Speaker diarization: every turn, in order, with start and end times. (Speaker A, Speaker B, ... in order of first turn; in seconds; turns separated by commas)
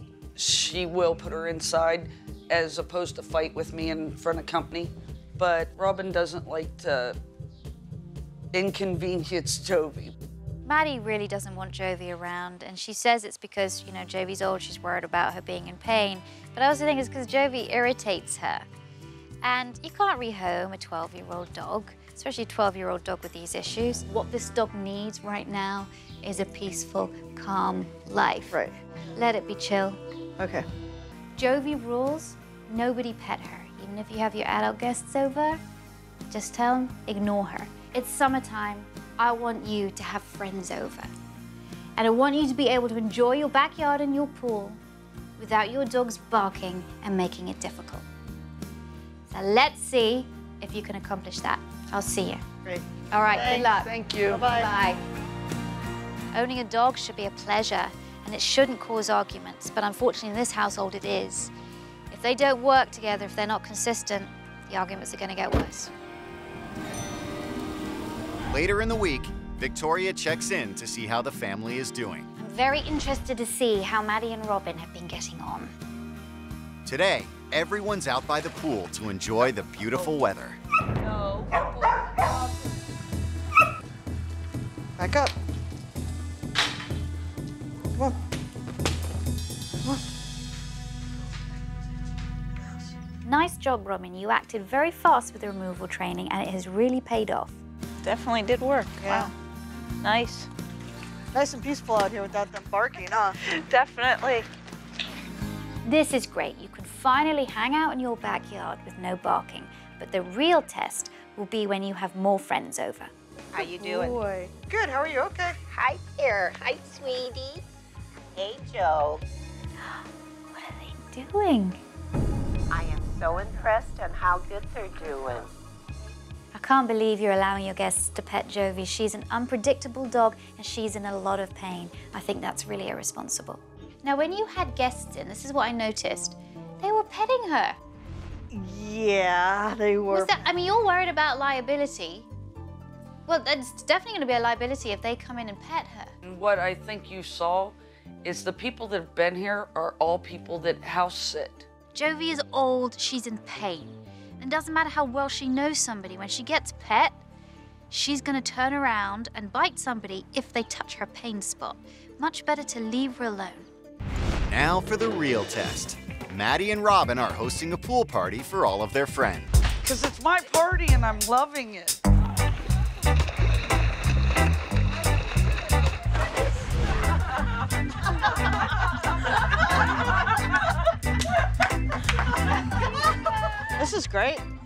Speaker A: 0.3-7.2, Speaker A: 8.5-10.1, Speaker B: 10.6-18.6, Speaker B: 19.4-28.6, Speaker B: 29.1-30.0, Speaker C: 30.4-30.6, Speaker B: 31.4-35.6, Speaker B: 36.3-41.1, Speaker B: 42.0-44.8, Speaker B: 45.4-48.0, Speaker B: 49.3-52.4, Speaker C: 52.6-53.7, Speaker B: 53.1-55.0, Speaker C: 54.2-54.7, Speaker B: 56.3-61.5, Speaker B: 62.1-65.9, Speaker D: 68.5-72.3, Speaker B: 72.4-75.7, Speaker D: 76.8-80.6, Speaker A: 81.0-81.6, Speaker C: 85.0-85.3, Speaker C: 92.6-92.9, Speaker B: 93.2-97.6, Speaker E: 98.0-99.3, Speaker C: 99.0-99.3, Speaker E: 100.0-100.5, Speaker C: 101.3-103.4, Speaker E: 103.4-104.5, Speaker B: 105.8-113.1, Speaker F: 113.5-114.2, Speaker C: 113.5-115.6, Speaker F: 115.7-117.6, Speaker F: 118.3-119.2, Speaker B: 120.5-121.8, Speaker F: 122.7-125.5, Speaker B: 126.5-137.8, Speaker C: 138.5-140.4, Speaker B: 140.1-142.3, Speaker B: 143.2-146.1, Speaker A: 146.2-151.6, Speaker B: 151.9-157.2, Speaker B: 157.9-163.7, Speaker D: 164.5-169.5, Speaker A: 169.8-172.0, Speaker C: 183.8-184.4